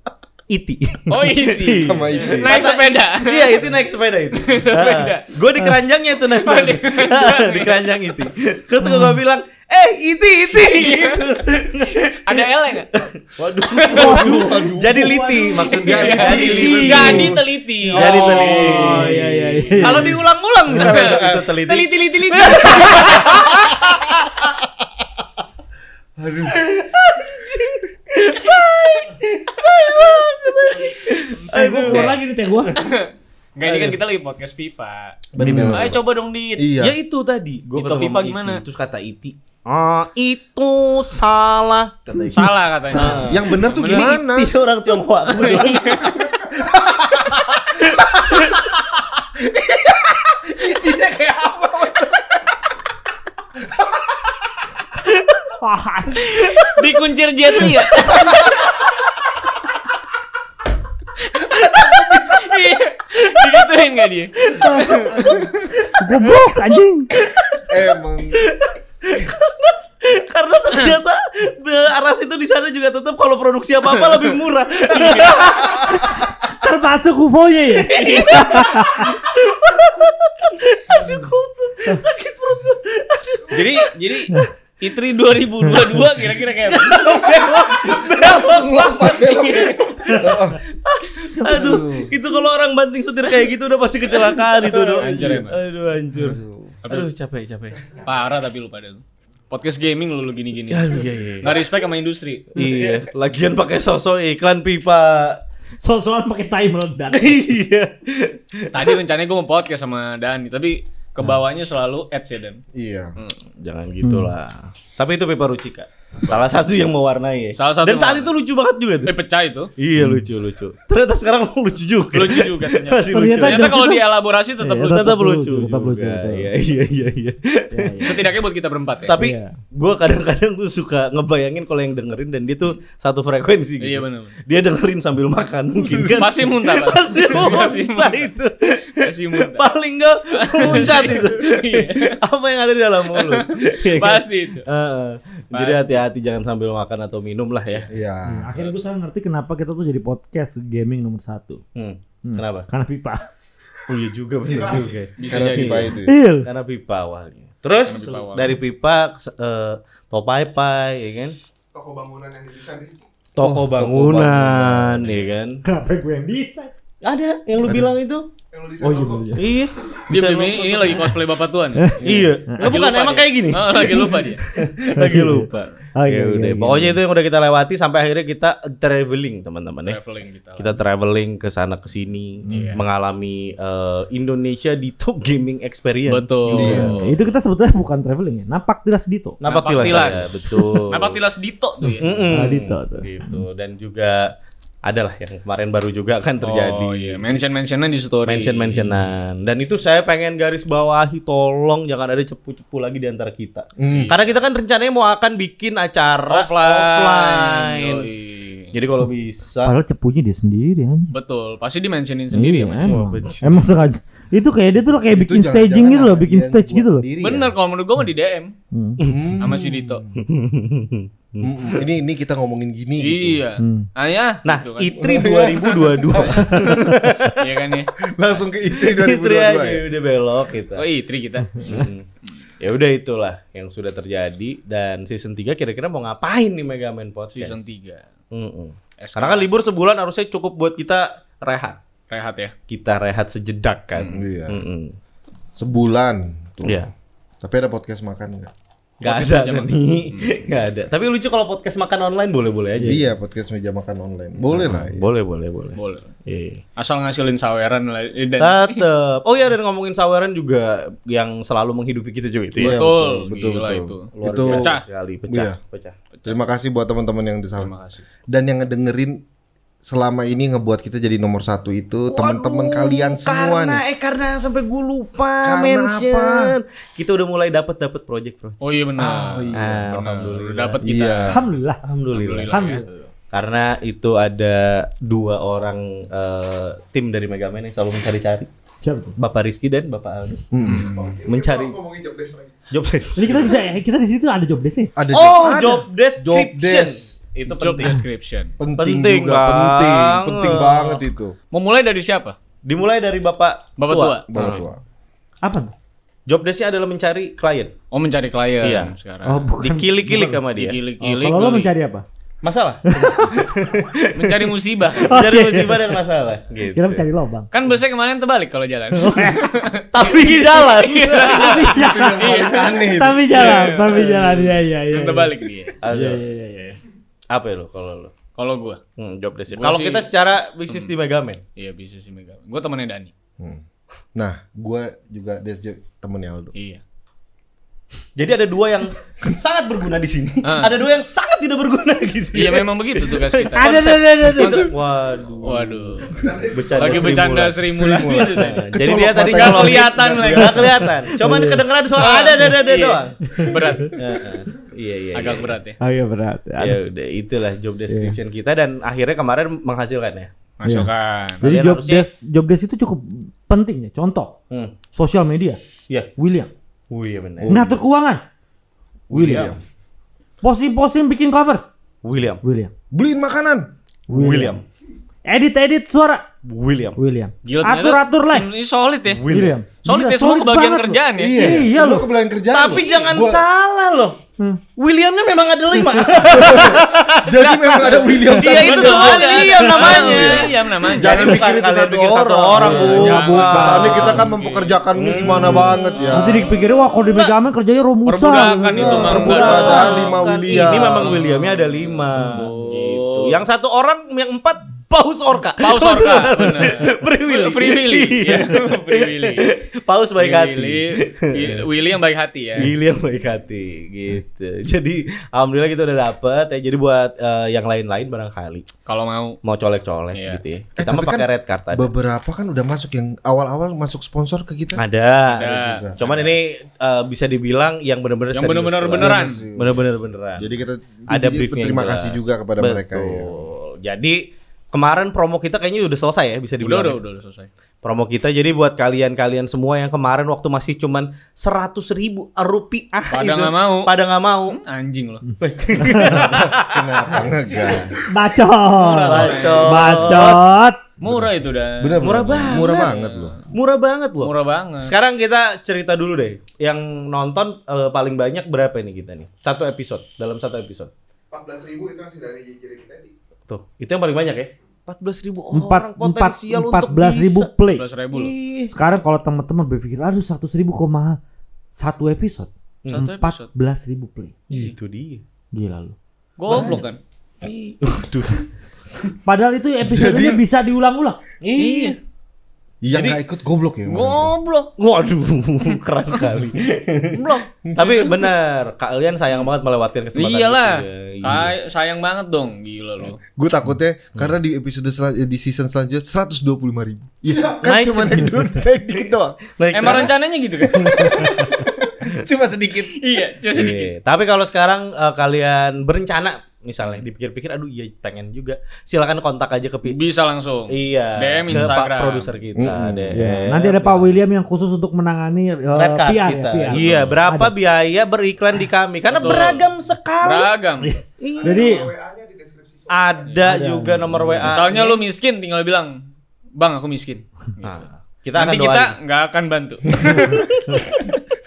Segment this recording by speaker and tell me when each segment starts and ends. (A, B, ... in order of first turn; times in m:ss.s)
0:00.5-0:17.4 A
0:01.1-0:03.7 B
0:01.8-0:02.6 C
0:04.3-0:05.3 B
0:06.4-0:08.0 B
0:08.8-0:09.2 D
0:10.5-0:12.9 B
0:13.7-0:14.4 B
0:13.9-0:17.3 D
0:13.9-0:17.4 C
0:15.7-0:19.1 B
0:17.9-0:20.9 D
0:17.9-0:23.5 A
0:18.0-0:18.9 C
0:20.8-0:23.7 B
0:20.8-0:21.5 C
0:23.1-0:24.0 C
0:26.2-0:26.8 C
0:26.5-0:32.2 A
0:28.4-0:29.1 B
0:29.6-0:30.2 B
0:31.5-0:32.8 D
0:31.9-0:36.7 B
0:33.6-0:34.0 A
0:35.4-0:36.0 C
0:35.4-0:35.9 A
0:36.6-0:37.0 C
0:36.8-0:46.2 A
0:37.8-0:38.6 B
0:42.3-0:44.2 B
0:42.9-0:44.5 C
0:45.3-0:46.2 B
0:46.4-0:46.9 E
0:47.8-0:48.6 A
0:49.6-0:50.0 E
0:50.5-0:52.1 E
0:50.6-0:51.1 C
0:55.6-0:56.4 D
0:56.1-0:58.7 B
1:01.2-1:06.4 B
1:01.8-1:02.1 C
1:02.0-1:02.5 E
1:04.6-1:05.0 D
1:05.1-1:05.5 C
1:05.9-1:07.1 D
1:07.2-1:07.6 A
1:07.7-1:08.4 C
1:08.3-1:16.0 A
1:13.8-1:14.4 B
1:14.9-1:15.5 B
1:15.9-1:19.1 D
1:17.8-1:23.9 A
1:18.0-1:18.8 B
1:23.5-1:27.2 B
1:26.6-1:37.9 A
1:27.3-1:30.6 C
1:29.1-1:30.2 B
1:31.4-1:31.7 D
1:31.5-1:32.1 C
1:35.0-1:35.6 B
1:36.1-1:36.8 C
1:38.0-1:42.5 B
1:40.7-1:41.6 A
1:42.5-1:45.4 A
1:45.8-1:47.5 D
1:47.1-1:49.0 A
1:48.7-1:52.6 B
1:52.7-1:53.1 C
1:53.6-1:59.1 A
1:54.0-1:54.3 D
1:57.6-1:58.3 B
1:59.0-1:59.7 B
1:59.8-2:04.0 A
2:00.0-2:00.3 D
2:02.1-2:05.0 B
2:03.1-2:04.0 D
2:04.6-2:06.5 D
2:04.8-2:08.2 A
2:07.7-2:08.3 D
2:08.0-2:09.1 B
2:09.1-2:27.9 A
2:09.2-2:09.6 D
2:13.8-2:14.4 B
2:16.0-2:18.3 B
2:19.0-2:19.6 B
2:20.4-2:22.2 B
2:23.1-2:24.7 B
2:25.5-2:26.0 B
2:27.9-2:28.7 C
2:28.3-2:31.6 D
2:31.8-2:32.7 A
2:32.2-2:33.3 D
2:33.9-2:41.4 A
2:35.2-2:36.0 B
2:35.3-2:36.1 C
2:36.1-2:36.5 D
2:37.8-2:38.6 B
2:41.7-2:43.0 E
2:43.4-2:45.6 A
2:43.4-2:45.2 C
2:45.6-2:46.7 D
2:47.0-2:48.3 A
2:48.5-2:49.6 E
2:48.8-2:49.5 D
2:49.4-2:51.1 A
2:50.1-2:52.0 B
2:51.8-2:52.6 D
2:52.0-2:55.5 A
2:52.0-2:52.4 C
2:52.6-2:54.4 B
2:54.8-2:57.0 D
2:55.5-2:55.7 B
2:56.1-3:00.0 A
2:59.9-3:00.8 B
3:00.6-3:07.0 A
3:02.5-3:02.8 B
3:06.1-3:07.3 B
3:06.5-3:06.9 C
3:06.6-3:09.4 D
3:09.4-3:11.2 A
3:09.4-3:12.3 B
3:10.0-3:10.8 D
3:12.0-3:14.3 A
3:12.3-3:13.4 D
3:14.8-3:17.4 A
3:16.4-3:19.0 B
3:18.3-3:28.1 A
3:23.8-3:24.1 C
3:23.9-3:24.4 B
3:26.3-3:28.7 B
3:28.7-3:29.8 A
3:29.6-3:31.1 D
3:31.1-3:33.2 B
3:32.3-3:37.0 D
3:32.8-3:33.7 A
3:35.1-3:37.6 C
3:37.2-3:38.5 B
3:38.7-3:39.0 D
3:39.0-3:39.4 A
3:39.1-3:40.1 C
3:39.4-3:40.0 B
3:40.1-3:41.9 A
3:41.4-3:43.4 C
3:43.0-3:47.9 B
3:43.6-3:43.9 D
3:44.4-3:47.6 A
3:45.0-3:46.9 C
3:48.1-3:49.9 C
3:48.7-3:50.9 A
3:50.8-3:51.8 B
3:51.6-3:52.1 A
3:52.6-3:57.6 A
3:57.3-3:58.0 B
3:58.3-4:01.8 A
3:59.0-3:59.5 B
4:02.1-4:02.5 B
4:02.7-4:05.0 A
4:04.0-4:04.2 B
4:04.1-4:04.6 C
4:05.6-4:06.8 C
4:06.6-4:06.9 A
4:07.4-4:08.5 C
4:09.0-4:13.0 A
4:09.0-4:10.5 B
4:12.8-4:15.0 C
4:14.5-4:16.6 A
4:15.8-4:16.1 B
4:16.8-4:18.9 B
4:18.4-4:22.9 A
4:22.6-4:24.7 C
4:22.6-4:24.8 B
4:24.1-4:26.0 A
4:25.3-4:25.6 C
4:26.3-4:27.7 C
4:27.6-4:28.0 B
4:28.3-4:29.2 C
4:29.8-4:33.8 C
4:32.1-4:38.6 A
4:35.4-4:36.5 C
4:38.6-4:41.4 B
4:39.0-4:39.8 C
4:39.5-4:40.8 A
4:40.8-4:41.4 C
4:41.3-4:41.8 D
4:41.8-4:48.5 A
4:42.1-4:42.8 B
4:42.5-4:42.9 D
4:48.8-4:49.2 D
4:49.2-4:50.5 A
4:50.5-4:50.9 C
4:50.6-4:51.2 B
4:50.7-4:52.7 E
4:51.3-4:51.8 A
4:52.7-4:53.6 A
4:53.2-4:54.9 D
4:55.0-4:57.0 C
4:55.1-4:58.0 A
4:57.5-4:58.6 B
4:58.6-5:01.4 C
4:58.8-5:00.9 A
5:01.5-5:02.4 B
5:02.6-5:04.6 A
5:03.8-5:04.2 B
5:04.3-5:04.8 C
5:05.4-5:05.7 D
5:06.3-5:07.7 A
5:07.9-5:09.5 B
5:08.6-5:09.0 A
5:09.3-5:10.4 D
5:09.6-5:10.8 A
5:10.6-5:11.7 B
5:11.0-5:12.0 D
5:12.4-5:17.1 A
5:12.9-5:13.4 D
5:14.1-5:15.1 B
5:15.0-5:16.0 D
5:16.7-5:17.5 D
5:17.5-5:24.3 B
5:19.0-5:19.5 D
5:19.9-5:21.8 A
5:20.0-5:20.6 D
5:21.3-5:26.8 D
5:21.7-5:23.2 C
5:23.9-5:24.6 A
5:24.9-5:25.8 B
5:25.8-5:26.2 A
5:27.3-5:28.1 A
5:28.4-5:28.8 B
5:29.0-5:31.4 A
5:29.5-5:30.1 B
5:31.6-5:33.1 B
5:34.1-5:36.5 C
5:36.6-5:36.8 B
5:38.2-5:55.6 A
5:40.4-5:40.8 B
5:42.3-5:44.7 B
5:43.6-5:44.7 D
5:45.4-5:46.1 B
5:46.1-5:47.2 E
5:46.7-5:50.9 B
5:47.7-5:50.9 C
5:51.1-5:52.1 D
5:52.0-5:54.6 B
5:53.2-5:53.9 D
5:55.1-5:55.8 B
5:55.8-5:56.8 D
5:56.6-6:00.3 A
5:57.9-5:58.2 D
6:00.6-6:01.4 B
6:00.6-6:00.9 D
6:01.4-6:02.1 A
6:01.4-6:04.4 D
6:05.0-6:05.6 D
6:06.2-6:06.5 D
6:06.9-6:07.7 A
6:07.4-6:07.7 C
6:07.5-6:08.2 D
6:09.1-6:09.5 D
6:09.1-6:09.5 A
6:09.2-6:09.6 C
6:10.4-6:11.6 D
6:12.0-6:12.4 A
6:12.4-6:12.7 D
6:12.9-6:13.7 C
6:14.1-6:14.6 D
6:14.1-6:14.6 A
6:15.3-6:16.3 D
6:16.4-6:17.0 A
6:17.0-6:18.5 D
6:17.4-6:19.3 B
6:19.1-6:19.6 A
6:19.3-6:22.1 D
6:19.8-6:21.4 B
6:21.2-6:23.4 C
6:21.4-6:21.7 A
6:22.5-6:24.2 A
6:24.8-6:34.2 A
6:25.9-6:26.7 D
6:26.2-6:36.5 C
6:28.3-6:31.4 B
6:32.5-6:34.8 B
6:32.6-6:34.2 D
6:34.9-6:37.4 A
6:35.4-6:39.5 D
6:35.7-6:36.1 B
6:38.0-6:43.4 B
6:38.7-6:41.2 C
6:38.8-6:51.6 A
6:45.6-6:49.5 B
6:50.2-6:52.7 B
6:52.6-6:58.7 A
6:58.9-6:59.4 B
6:59.4-7:01.9 A
7:00.1-7:00.4 B
7:00.8-7:04.8 C
7:04.8-7:10.5 A
7:05.4-7:05.8 B
7:05.4-7:06.3 C
7:08.3-7:09.4 B
7:09.0-7:09.9 C
7:10.4-7:13.4 C
7:11.1-7:17.0 A
7:16.6-7:17.5 B
7:17.8-7:24.6 A
7:23.1-7:24.0 B
7:24.5-7:25.2 B
7:25.4-7:28.0 A
7:25.8-7:26.2 D
7:26.0-7:28.0 C
7:27.6-7:27.8 B
7:28.1-7:30.8 D
7:28.7-7:30.2 B
7:29.0-7:30.5 A
7:31.0-7:33.4 B
7:31.8-7:33.4 C
7:32.0-7:33.0 A
7:33.5-7:40.9 A
7:34.2-7:34.9 B
7:41.3-7:43.1 E
7:43.5-7:47.5 A
7:45.5-7:47.8 D
7:47.7-7:48.3 B
7:48.1-7:48.7 A
7:48.7-7:51.2 D
7:51.8-7:54.5 D
7:52.9-7:53.4 B
7:54.5-7:54.7 B
7:54.5-7:55.2 A
7:55.5-7:56.0 D
7:56.4-7:57.0 B
7:56.5-7:56.8 A
7:56.5-7:56.8 D
7:57.4-7:58.5 A
7:59.3-8:01.2 D
7:59.9-8:00.4 C
8:01.4-8:02.0 A
8:01.6-8:02.0 B
8:02.8-8:04.3 C
8:02.9-8:03.2 A
8:03.9-8:04.7 B
8:04.8-8:11.5 A
8:05.6-8:06.2 B
8:07.1-8:08.1 B
8:07.7-8:08.1 C
8:10.1-8:13.2 B
8:13.3-8:20.1 C
8:17.2-8:17.7 E
8:17.6-8:18.4 A
8:19.0-8:20.1 A
8:19.7-8:21.3 B
8:20.7-8:23.0 C
8:20.9-8:21.4 A
8:22.8-8:23.9 B
8:23.5-8:30.0 A
8:29.9-8:32.4 B
8:30.7-8:34.2 A
8:32.6-8:33.1 C
8:33.1-8:37.6 D
8:35.7-8:40.5 A
8:39.1-8:39.7 B
8:40.2-8:40.9 B
8:40.8-8:41.9 D
8:41.2-8:41.8 A
8:41.4-8:43.5 E
8:42.9-8:45.0 A
8:43.4-8:44.6 D
8:44.4-8:46.0 B
8:46.6-8:47.8 B
8:47.6-8:48.9 A
8:48.4-8:51.2 B
8:50.3-8:50.6 A